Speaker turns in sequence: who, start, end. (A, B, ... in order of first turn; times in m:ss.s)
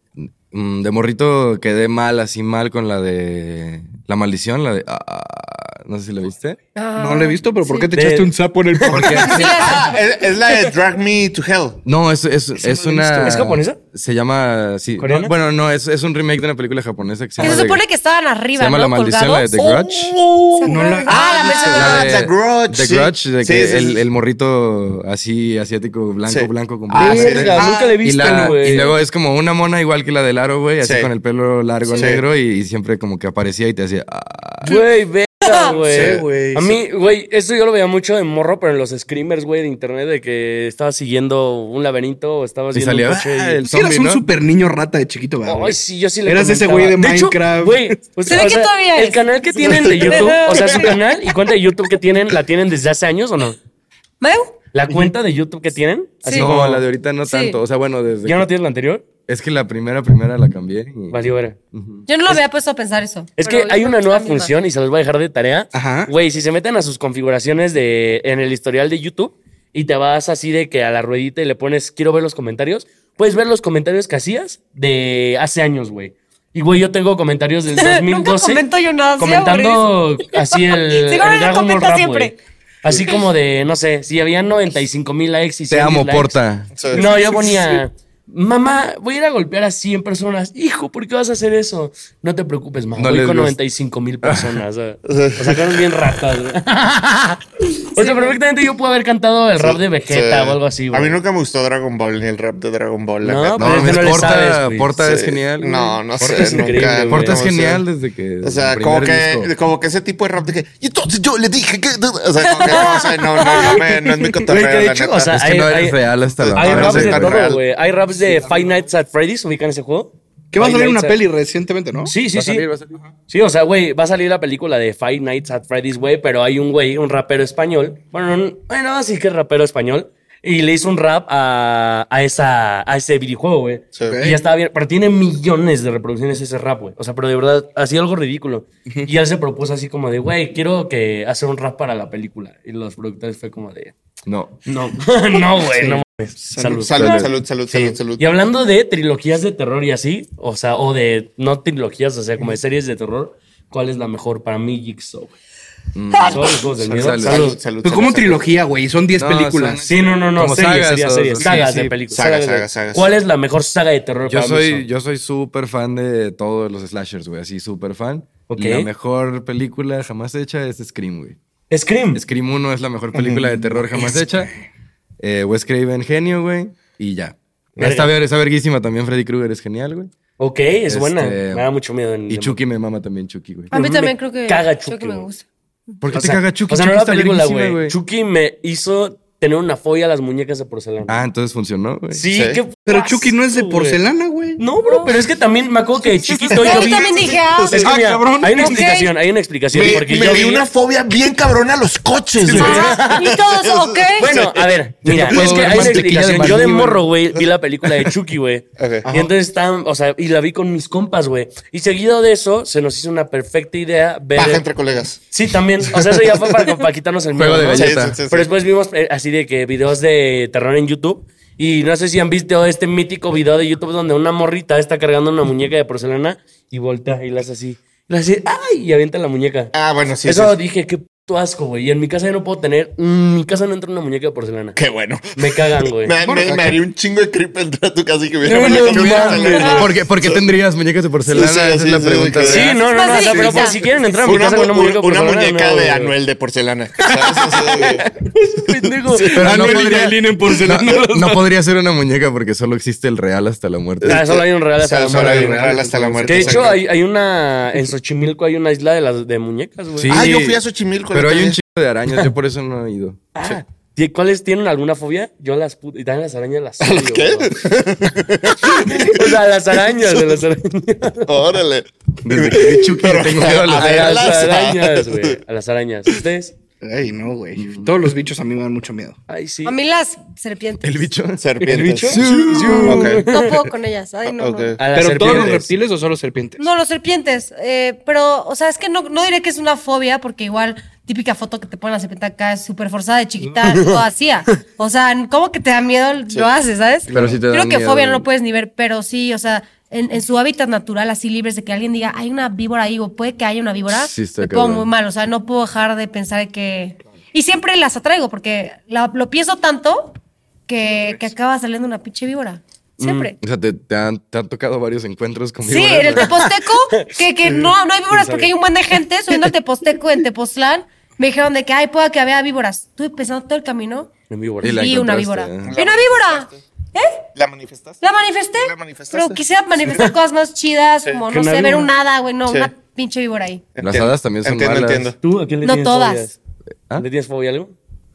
0:00.2-0:06.6 A
0:06.7-0:07.9 B
0:07.0-0:09.7 C
0:07.9-0:09.8 D
0:08.9-0:09.6 A
0:09.1-0:10.0 B
0:09.4-0:11.8 E
0:11.8-0:17.8 A
0:12.6-0:13.4 C
0:13.1-0:13.8 D
0:15.0-0:15.3 D
0:17.4-0:19.8 B
0:18.5-0:20.2 A
0:19.6-0:24.0 E
0:20.5-0:22.2 B
0:20.6-0:21.6 C
0:21.6-0:34.7 A
0:26.2-0:27.7 E
0:27.0-0:28.9 D
0:27.0-0:28.6 C
0:30.8-0:31.1 E
0:32.0-0:32.2 E
0:34.6-0:43.6 D
0:35.4-0:35.7 B
0:35.6-0:36.8 C
0:42.7-0:44.2 A
0:43.6-0:48.0 C
0:45.4-0:53.6 D
0:48.3-0:51.0 B
0:54.2-0:54.5 B
0:54.7-0:56.8 D
0:56.2-0:56.5 B
0:56.3-0:58.5 A
0:57.2-0:57.6 B
0:58.2-0:59.0 D
0:59.3-1:01.2 A
1:01.1-1:01.6 D
1:01.7-1:02.1 A
1:02.1-1:04.5 B
1:03.4-1:18.6 D
1:05.7-1:06.1 C
1:17.7-1:22.3 B
1:19.2-1:41.2 D
1:22.9-1:23.2 B
1:25.7-1:26.7 A
1:26.8-1:27.1 E
1:33.0-1:33.6 A
1:34.2-1:34.6 A
1:35.1-1:35.6 E
1:38.0-1:38.4 B
1:39.6-1:44.3 E
1:43.2-1:44.9 D
1:43.6-1:46.5 A
1:45.0-1:47.8 E
1:46.2-1:47.4 D
1:47.1-1:49.5 A
1:48.4-1:55.3 E
1:52.5-1:54.4 B
1:52.6-1:53.8 D
1:54.4-1:56.0 D
1:55.3-1:57.5 A
1:56.4-1:57.6 E
1:56.5-2:01.2 D
2:00.5-2:02.1 C
2:02.0-2:02.7 D
2:02.3-2:03.0 A
2:03.3-2:23.9 D
2:14.0-2:14.4 C
2:24.2-2:24.6 A
2:24.6-2:35.4 D
2:25.6-2:26.9 C
2:26.8-2:28.3 E
2:27.0-2:27.3 A
2:35.9-2:37.5 A
2:36.2-2:37.6 D
2:37.1-2:38.6 E
2:37.8-2:39.8 C
2:39.2-2:42.0 A
2:39.8-2:44.8 D
2:42.1-2:43.1 E
2:44.3-2:51.4 A
2:48.5-2:48.9 D
2:51.7-2:52.2 D
2:52.1-2:54.5 A
2:53.2-2:53.4 E
2:53.9-2:54.2 C
2:55.2-3:00.1 A
2:57.8-2:58.1 D
3:00.4-3:02.6 D
3:00.9-3:01.7 A
3:02.3-3:03.8 A
3:03.7-3:05.2 D
3:03.7-3:05.4 B
3:06.0-3:08.0 A
3:06.1-3:11.2 D
3:11.1-3:12.2 A
3:12.1-3:14.0 D
3:12.3-3:12.6 E
3:12.8-3:14.6 C
3:14.6-3:20.6 D
3:14.8-3:15.1 B
3:16.1-3:16.7 C
3:16.4-3:17.9 E
3:16.6-3:17.9 B
3:17.8-3:18.9 C
3:18.5-3:19.1 B
3:19.7-3:20.6 C
3:19.7-3:24.7 E
3:22.4-3:23.4 D
3:22.6-3:24.3 B
3:24.2-3:34.6 D
3:25.0-3:27.0 A
3:25.4-3:26.0 C
3:28.8-3:29.1 E
3:29.0-3:29.3 C
3:34.4-3:35.2 E
3:35.3-3:54.8 D
3:37.4-3:38.2 A
3:37.7-3:38.5 E
3:49.7-3:50.6 E
3:54.8-4:00.5 E
3:55.3-3:56.7 D
3:56.2-3:56.6 C
3:58.4-3:59.9 D
3:58.6-3:59.3 C
3:58.8-4:02.8 A
4:01.2-4:02.8 E
4:02.4-4:06.1 D
4:02.8-4:03.8 B
4:03.1-4:03.8 C
4:04.2-4:08.0 E
4:07.0-4:09.9 D
4:09.0-4:09.6 E
4:09.3-4:11.4 C
4:09.4-4:14.4 A
4:14.0-4:16.8 E
4:14.0-4:15.6 D
4:15.1-4:16.6 A
4:15.2-4:16.6 C
4:16.2-4:20.3 D
4:19.9-4:20.6 A
4:20.1-4:21.6 E
4:21.1-4:23.3 A
4:23.3-4:31.4 D
4:26.8-4:29.4 E
4:30.0-4:30.4 E
4:31.2-4:35.4 E
4:32.2-4:34.5 A
4:33.7-4:36.5 D
4:36.8-4:39.2 C
4:37.6-4:37.9 A
4:39.3-4:39.8 D
4:39.6-4:41.1 B
4:40.8-4:43.2 A
4:41.4-4:42.2 E
4:41.6-4:43.6 D
4:42.8-4:43.2 E
4:43.2-4:44.8 B
4:44.2-4:45.5 E
4:44.8-4:45.7 D
4:44.9-4:46.6 C
4:46.6-5:10.2 B
4:53.6-4:54.0 D
4:57.1-4:58.3 A
5:03.9-5:04.9 A
5:10.7-5:13.4 B
5:13.0-5:13.3 D
5:13.4-5:16.4 A
5:15.6-5:24.1 B
5:16.2-5:18.5 D
5:24.3-5:24.9 D
5:24.6-5:25.8 A
5:24.6-5:27.3 B
5:25.6-5:26.6 E
5:27.3-5:28.0 E
5:28.0-5:33.6 B
5:28.6-5:30.0 E
5:31.3-5:31.9 D
5:33.8-5:35.2 E
5:33.8-5:35.1 A
5:35.2-5:36.4 D
5:35.6-5:36.3 B
5:37.0-5:37.7 D